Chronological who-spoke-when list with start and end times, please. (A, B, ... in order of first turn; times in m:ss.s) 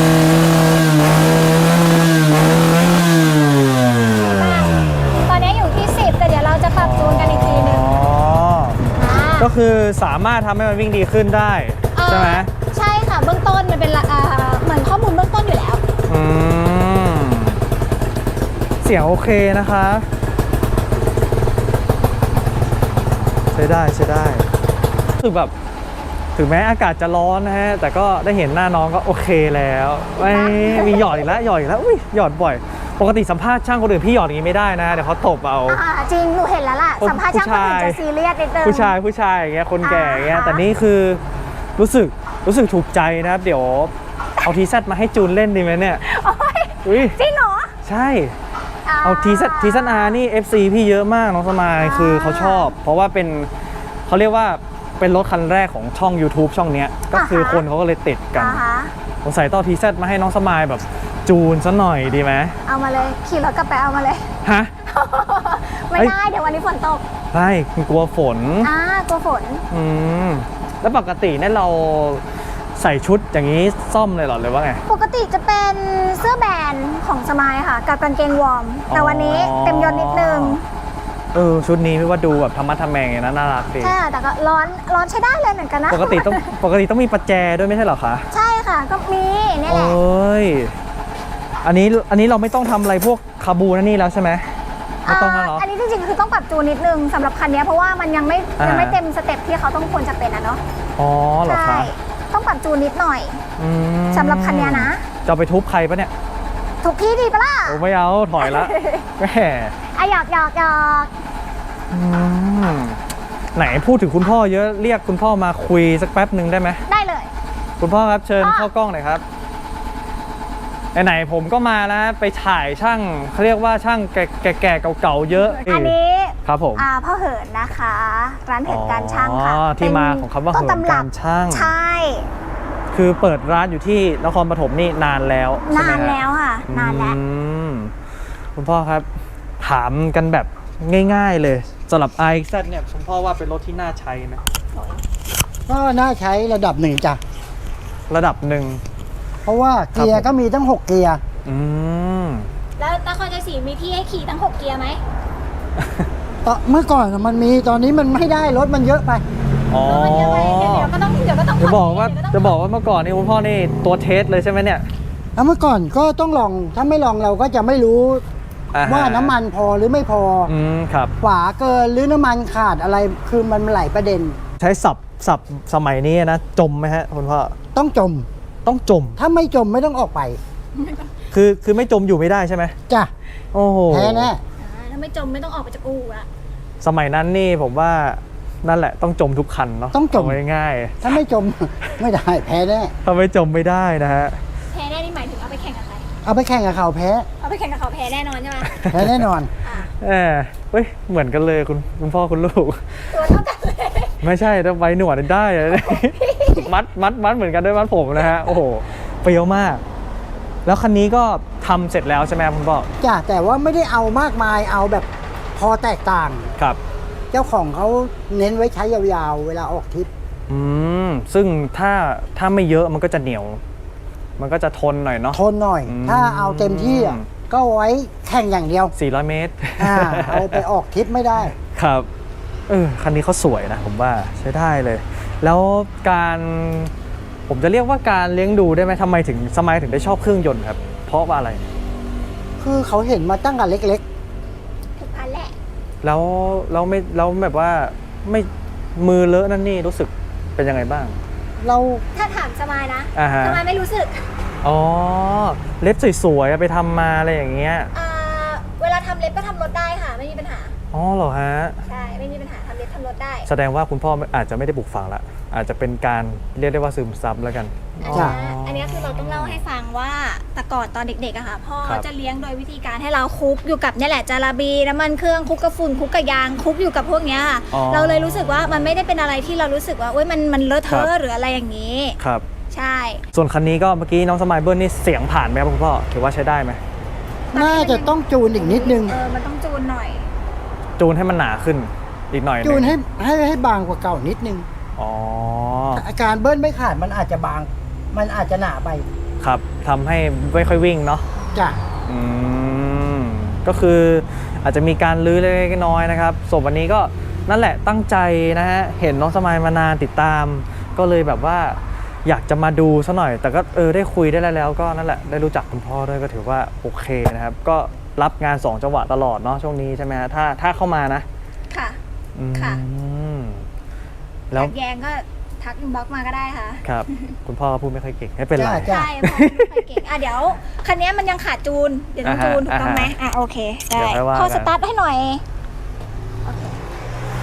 0:04.2-0:08.0 A
0:06.7-0:08.8 B
0:08.9-0:09.5 A
0:09.4-0:12.5 B
0:11.9-0:15.8 A
0:16.1-0:17.6 B
0:18.8-0:20.1 B
0:23.5-0:24.5 B
0:25.2-0:25.5 B
0:26.4-0:35.8 B
0:30.2-0:31.3 A
0:35.7-0:39.0 A
0:37.0-0:38.0 B
0:38.6-0:41.2 B
0:39.8-0:40.6 A
0:41.8-0:46.0 B
0:46.0-0:47.8 A
0:46.8-0:47.2 B
0:47.8-0:48.3 B
0:48.8-0:50.2 A
0:49.0-0:53.5 B
0:51.8-0:52.7 A
0:54.1-0:58.6 B
0:57.1-0:57.6 A
0:58.3-0:58.9 A
0:59.2-1:02.5 B
1:02.6-1:07.0 A
1:04.4-1:04.7 B
1:07.3-1:08.7 B
1:08.6-1:09.6 A
1:09.7-1:12.2 B
1:12.8-1:14.8 B
1:14.8-1:20.6 A
1:18.9-1:20.6 B
1:21.3-1:23.9 B
1:23.8-1:26.6 A
1:25.9-1:28.2 B
1:28.3-1:30.0 A
1:29.7-1:30.7 B
1:31.6-1:34.5 B
1:35.0-1:40.6 A
1:35.1-1:35.6 B
1:38.6-1:39.0 B
1:41.0-1:41.9 B
1:41.4-1:43.4 A
1:43.6-1:46.1 B
1:44.1-1:45.0 A
1:46.8-1:47.8 A
1:47.7-1:49.8 B
1:48.4-1:49.1 A
1:49.9-1:51.1 A
1:51.9-1:53.0 B
1:53.6-1:56.8 B
1:56.9-1:57.3 A
1:57.8-1:59.2 B
1:58.4-1:58.7 A
2:00.9-2:06.9 B
2:05.4-2:12.3 A
2:08.6-2:11.7 B
2:12.9-2:17.9 B
2:15.7-2:17.2 A
2:18.6-2:19.1 B
2:19.6-2:24.4 B
2:24.7-2:25.0 A
2:25.7-2:27.2 C
2:28.1-2:28.8 B
2:29.4-2:31.2 C
2:29.9-2:30.3 B
2:31.4-2:32.5 B
2:32.8-2:35.0 A
2:35.8-2:36.1 B
2:36.4-2:39.2 C
2:39.7-2:40.9 B
2:39.8-2:42.6 A
2:41.6-2:44.9 B
2:45.4-2:48.2 C
2:48.7-2:49.4 B
2:48.8-2:50.5 C
2:50.4-2:51.1 B
2:51.2-2:54.4 C
2:54.6-2:57.5 B
2:57.7-2:58.3 C
2:58.6-2:59.2 B
2:59.2-3:00.4 C
3:00.8-3:01.1 A
3:01.3-3:02.8 B
3:03.5-3:04.3 B
3:03.9-3:04.4 C
3:04.6-3:06.3 A
3:06.8-3:11.1 B
3:09.9-3:10.4 C
3:11.0-3:12.9 C
3:13.0-3:14.4 B
3:14.7-3:16.1 A
3:16.2-3:17.3 C
3:17.4-3:19.0 A
3:18.7-3:19.2 B
3:18.9-3:19.5 C
3:19.6-3:19.9 A
3:19.9-3:23.2 B
3:23.1-3:24.2 A
3:24.2-3:29.8 B
3:25.7-3:26.7 A
3:30.6-3:32.9 B
3:33.0-3:36.5 C
3:37.3-3:40.1 C
3:40.5-3:43.6 B
3:44.4-3:47.3 B
3:45.3-3:48.9 C
3:48.9-3:50.6 B
3:49.8-3:51.5 C
3:51.4-3:52.1 B
3:52.7-3:56.9 B
3:57.5-4:01.6 B
4:02.6-4:04.0 C
4:05.0-4:05.6 A
4:06.0-4:11.2 B
4:11.6-4:12.0 C
4:12.1-4:14.3 A
4:13.1-4:13.6 B
4:14.6-4:17.9 B
4:17.9-4:20.7 A
4:20.9-4:21.8 B
4:21.9-4:23.5 A
4:23.4-4:29.6 B
4:28.0-4:42.2 A
4:28.1-4:28.4 C
4:37.7-4:39.0 B
4:42.2-4:42.4 B
4:42.7-4:43.2 A
4:43.3-4:46.8 B
4:47.5-4:50.3 A
4:47.5-4:49.2 C
4:51.0-4:52.9 B
4:52.6-4:54.7 C
4:55.0-4:56.0 B
4:55.9-4:59.0 C
4:59.4-5:01.2 B
5:02.1-5:21.2 B
5:21.7-5:22.0 A
5:22.4-5:23.7 B
5:22.6-5:22.8 A
5:24.5-5:27.3 A
5:26.8-5:29.8 B
5:28.6-5:29.1 C
5:28.8-5:35.4 A
5:32.2-5:33.1 B
5:33.9-5:34.7 B